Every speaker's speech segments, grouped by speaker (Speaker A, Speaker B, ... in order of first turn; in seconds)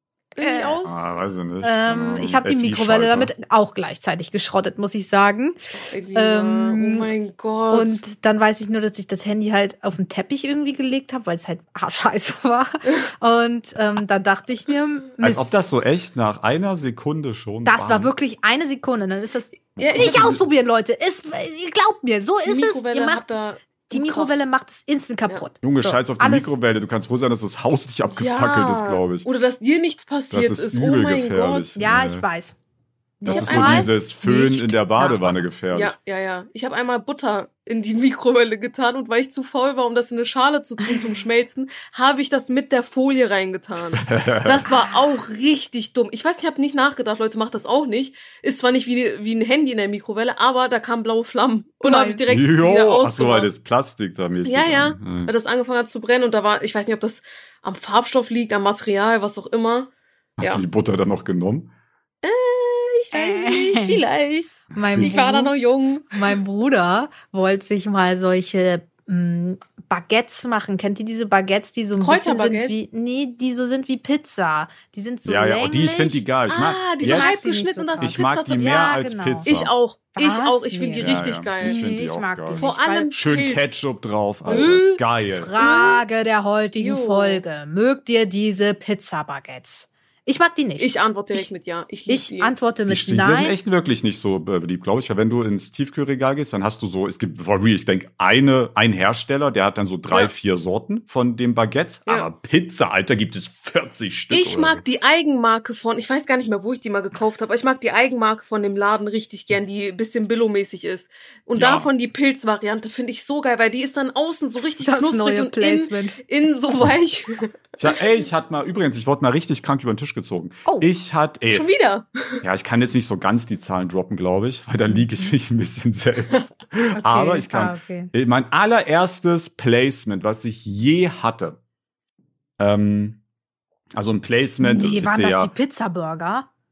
Speaker A: 0.3-1.1, 5.8-8.0, 19.8-20.4, 22.4-24.3, 28.1-31.7, 33.3-33.9, 35.7-53.5, 54.4-59.9, 62.2-66.1, 72.0-72.8, 76.5-81.8, 82.5-83.7, 84.5-85.0, 85.6-86.0, 86.8-87.4, 90.8-92.5, 104.3-117.5, 121.5-122.4
Speaker B: 0.4-0.8, 1.6-5.6, 6.1-7.1, 7.7-15.5, 17.6-23.2, 23.9-26.5, 31.8-32.5, 33.2-35.5, 44.7-45.0, 51.8-52.2, 63.1-64.0, 64.7-65.5, 66.1-76.3, 77.0-79.5, 80.2-83.1, 85.3-91.5, 92.1-93.5, 114.6-116.2, 124.9-125.3, 127.0-128.1, 134.6-136.5
Speaker C: 0.8-3.3, 15.2-18.1, 19.8-20.4, 25.6-29.2, 30.3-32.2, 33.3-35.9, 44.0-44.7, 52.3-55.3, 60.4-61.7, 64.7-65.2, 75.2-77.4, 78.0-79.7, 81.0-85.5, 92.9-104.8, 111.5-111.9, 117.8-121.7, 122.4-131.6, 132.6-133.2, 133.9-135.5